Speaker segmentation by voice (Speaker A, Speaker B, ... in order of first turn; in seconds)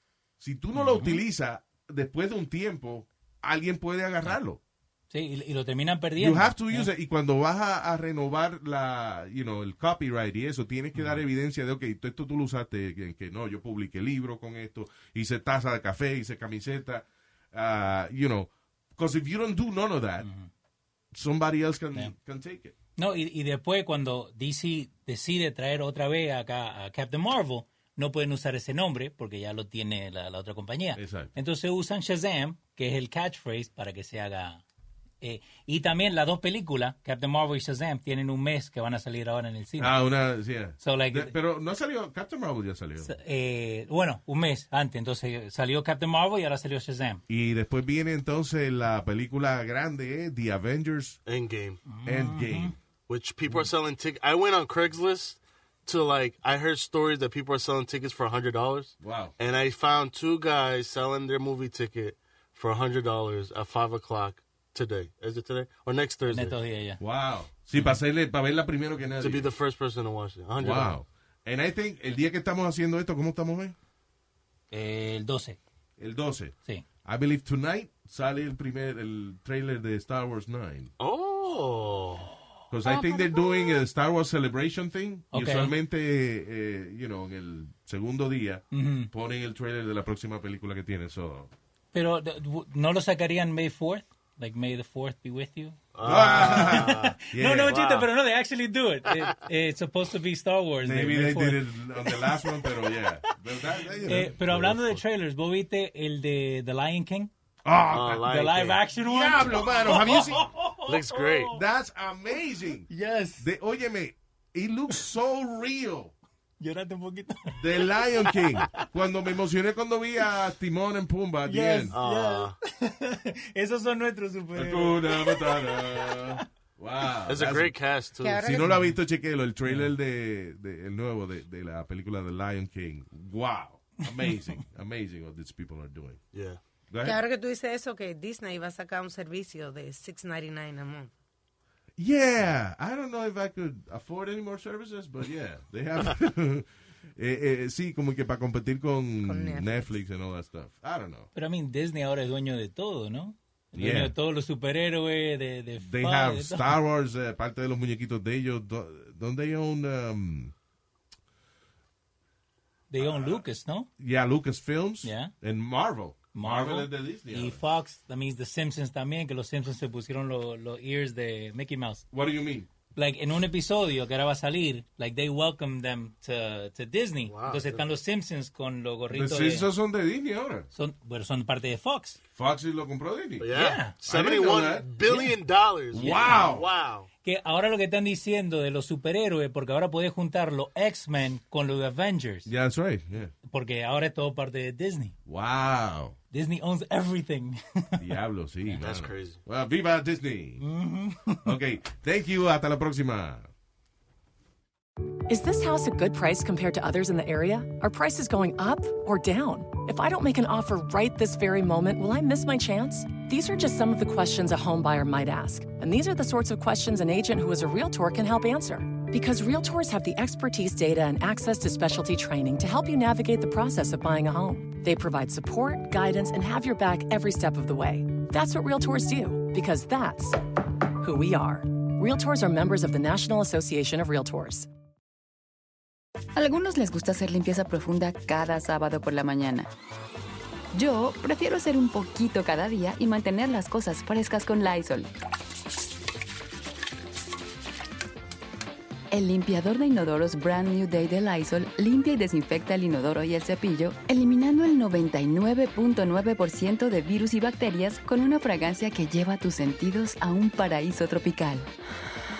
Speaker A: 0.4-4.6, 6.2-20.3, 21.1-22.7, 31.0-31.3, 39.8-43.1, 47.3-51.2, 52.1-52.8, 59.0-59.3, 67.0-69.5, 70.6-73.8, 76.0-80.9, 82.7-91.5, 96.0-97.8, 100.8-105.0, 107.7-108.3, 109.0-110.5, 111.5-112.9, 113.4-116.2, 117.6-122.0, 124.5-127.8, 128.3-136.2, 136.9-137.2, 142.0-151.3, 153.8-154.1, 155.8-160.5, 163.0-163.4, 164.0-167.6, 172.1-172.7, 179.1-180.7, 182.4-183.5, 184.1-184.9, 185.9-186.7, 192.5-193.3, 195.3-196.2, 198.0-200.6, 201.4-203.5
Speaker B: 0.7-1.2, 5.1-6.9, 10.9-11.2, 20.2-20.5, 23.0-34.6, 35.2-40.0, 40.8-41.3, 43.0-47.2, 51.9-52.8, 66.3-67.0, 74.7-75.6, 82.9-83.3, 85.3-85.7, 88.7-89.1, 91.9-95.8, 96.3-103.3, 104.0-107.3, 108.3-111.6, 112.9-113.5, 116.6-118.9, 121.4-126.5, 128.7-128.9, 129.6-129.9, 151.3-156.8, 162.9-163.9, 165.0-165.3, 166.3-172.1, 172.9-179.7, 180.7-182.2, 183.5-183.9, 185.1-185.3, 186.0-186.5, 187.2-192.5, 193.5-195.2, 196.3-198.1, 200.6-201.6
Speaker C: 51.3-51.8, 53.1-66.5, 69.2-71.0, 81.0-82.3, 95.9-98.1, 99.1-99.4, 107.9-108.8, 110.9-111.6, 121.9-122.5, 127.3-128.5, 136.3-136.6, 177.3-177.8, 183.4-187.1, 198.8-199.4
Speaker D: 128.2-128.8, 137.0-141.1, 149.2-149.9
Speaker E: 205.3-230.4, 231.0-234.7
Speaker F: 236.4-239.7, 240.7-245.1, 249.1-261.7